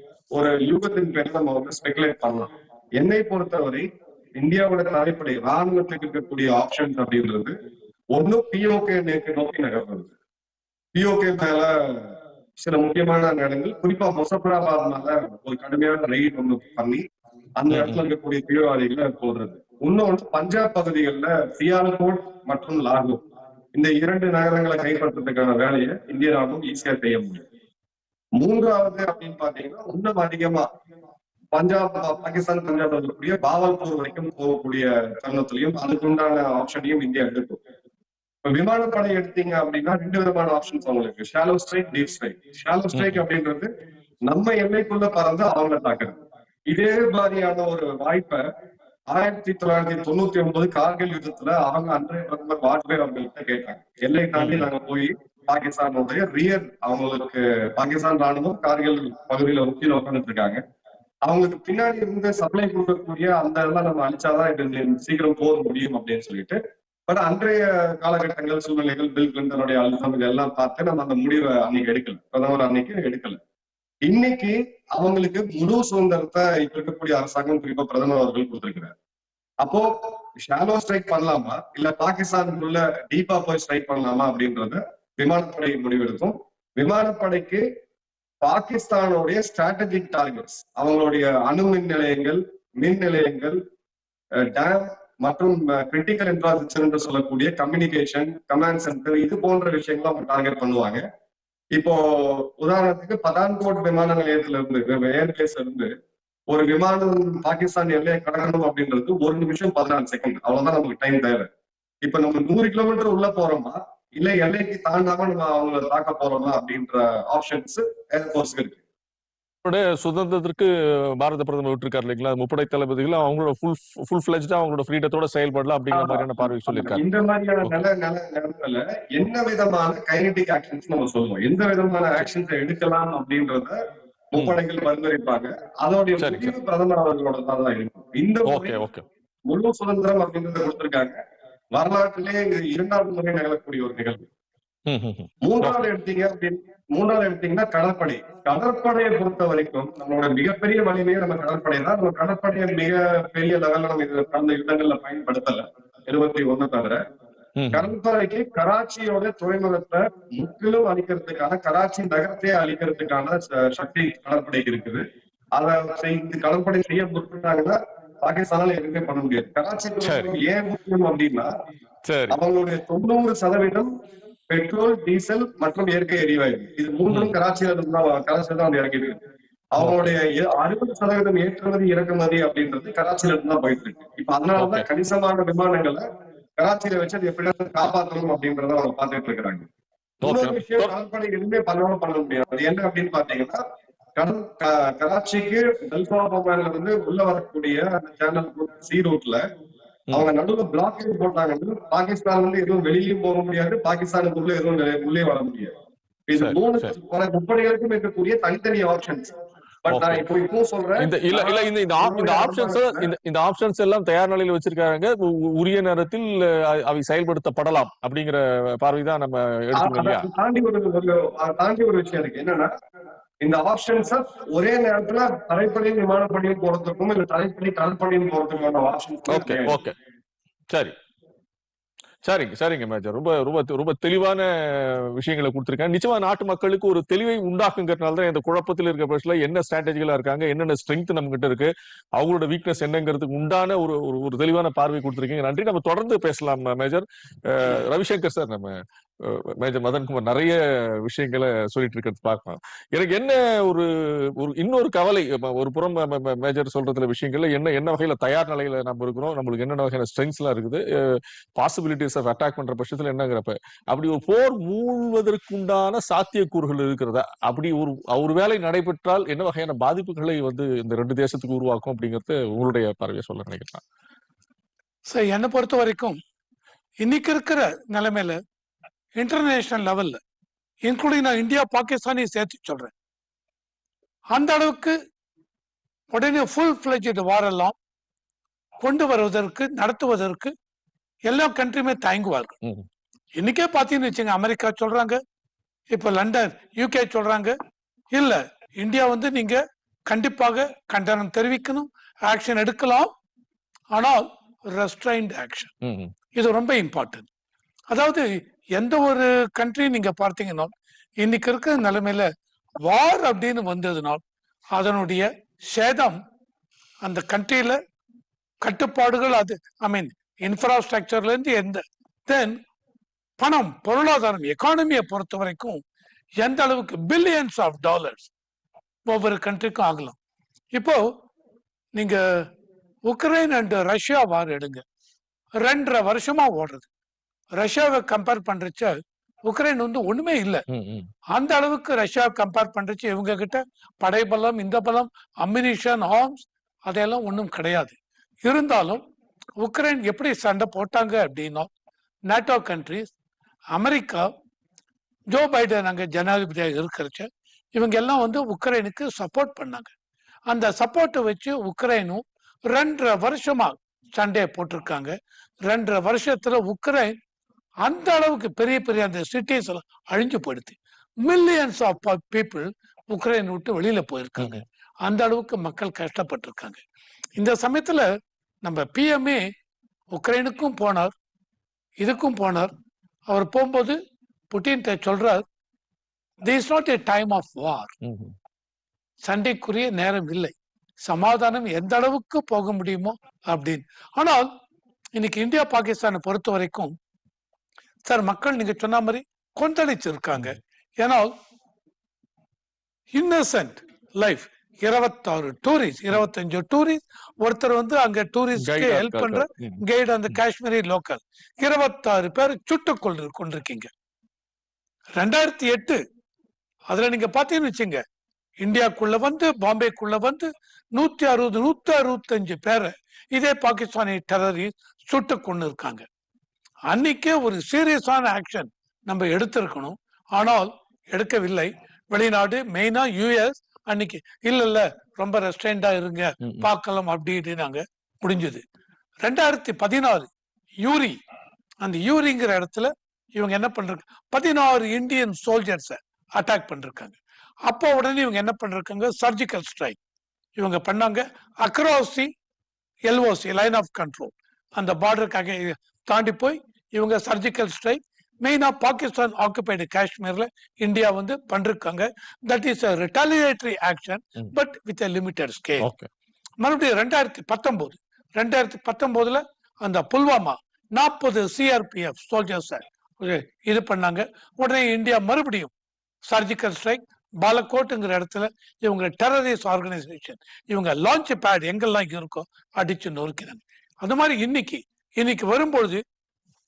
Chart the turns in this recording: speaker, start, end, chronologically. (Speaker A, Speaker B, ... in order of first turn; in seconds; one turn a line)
Speaker A: 0.3-7.5
Speaker A: 8.1-10.1
Speaker A: 10.9-17.0
Speaker A: 17.6-23.2
Speaker B: 17.7-18.0
Speaker A: 23.7-27.4
Speaker A: 28.4-30.7
Speaker A: 31.5-37.6
Speaker A: 38.5-43.7
Speaker B: 42.9-43.2
Speaker A: 44.3-46.2
Speaker A: 46.7-48.5
Speaker A: 49.1-60.6
Speaker B: 54.4-54.7
Speaker A: 61.2-73.4
Speaker A: 74.1-78.9
Speaker A: 79.6-87.6
Speaker A: 88.4-93.6
Speaker A: 94.5-101.0
Speaker A: 101.8-105.9
Speaker A: 106.5-111.5
Speaker A: 112.0-118.8
Speaker B: 119.7-127.0
Speaker A: 125.9-133.8
Speaker A: 134.3-138.8
Speaker B: 136.2-136.5
Speaker B: 138.5-139.1
Speaker A: 139.5-141.2
Speaker A: 141.7-144.3
Speaker B: 144.9-145.9
Speaker A: 145.4-157.0
Speaker B: 157.6-157.9
Speaker A: 157.7-165.0
Speaker A: 165.6-171.5
Speaker B: 170.0-170.3
Speaker B: 172.1-172.4
Speaker A: 172.3-173.9
Speaker A: 174.5-179.2
Speaker B: 177.1-177.4
Speaker A: 179.7-186.0
Speaker B: 179.8-180.1
Speaker B: 184.6-184.9
Speaker A: 186.6-189.7
Speaker B: 190.2-190.9
Speaker A: 190.2-193.6
Speaker A: 194.2-199.4
Speaker A: 200.1-205.7
Speaker A: 206.3-213.1
Speaker B: 206.4-206.9
Speaker B: 209.9-210.2
Speaker B: 211.0-220.3
Speaker A: 219.8-222.7
Speaker A: 223.4-229.8
Speaker B: 229.3-229.9
Speaker B: 232.2-273.8
Speaker C: 275.1-276.2
Speaker C: 277.0-278.4
Speaker C: 279.2-280.2
Speaker C: 280.8-282.9
Speaker C: 284.3-285.0
Speaker C: 286.1-287.8
Speaker C: 288.8-290.5
Speaker C: 291.3-292.6
Speaker C: 293.4-295.2
Speaker C: 295.9-297.6
Speaker C: 298.1-303.1
Speaker C: 303.9-305.7
Speaker B: 305.8-306.1
Speaker C: 306.3-307.3
Speaker C: 307.9-312.3
Speaker C: 312.8-314.2
Speaker C: 314.7-316.2
Speaker C: 317.0-317.8
Speaker C: 318.6-322.6
Speaker C: 323.4-325.8
Speaker C: 326.4-328.3
Speaker C: 329.1-330.2
Speaker C: 330.8-331.1
Speaker C: 332.0-332.5
Speaker C: 333.1-334.8
Speaker C: 335.6-336.9
Speaker C: 337.6-340.6
Speaker B: 340.7-341.1
Speaker C: 341.3-349.0
Speaker C: 349.6-351.7
Speaker C: 352.3-353.1
Speaker C: 353.7-354.3
Speaker C: 355.3-359.9
Speaker C: 360.5-365.2
Speaker C: 365.7-367.2
Speaker C: 367.8-376.8
Speaker B: 374.4-374.6
Speaker C: 377.4-378.1
Speaker C: 378.6-379.4
Speaker C: 380.1-381.1
Speaker C: 382.0-382.7
Speaker C: 383.3-384.0
Speaker C: 384.5-385.4
Speaker C: 386.4-387.9
Speaker B: 388.0-388.3
Speaker C: 389.2-394.5
Speaker C: 395.2-396.9
Speaker C: 398.1-401.4
Speaker C: 403.1-413.9
Speaker B: 408.6-410.4
Speaker C: 415.2-416.0
Speaker C: 416.9-418.0
Speaker C: 418.6-426.1
Speaker C: 426.9-438.6
Speaker B: 436.4-436.7
Speaker C: 439.2-440.3
Speaker C: 440.8-441.2
Speaker C: 441.8-450.0
Speaker C: 450.6-452.3
Speaker C: 453.1-465.9
Speaker B: 465.8-466.1
Speaker C: 466.6-475.7
Speaker C: 476.3-486.0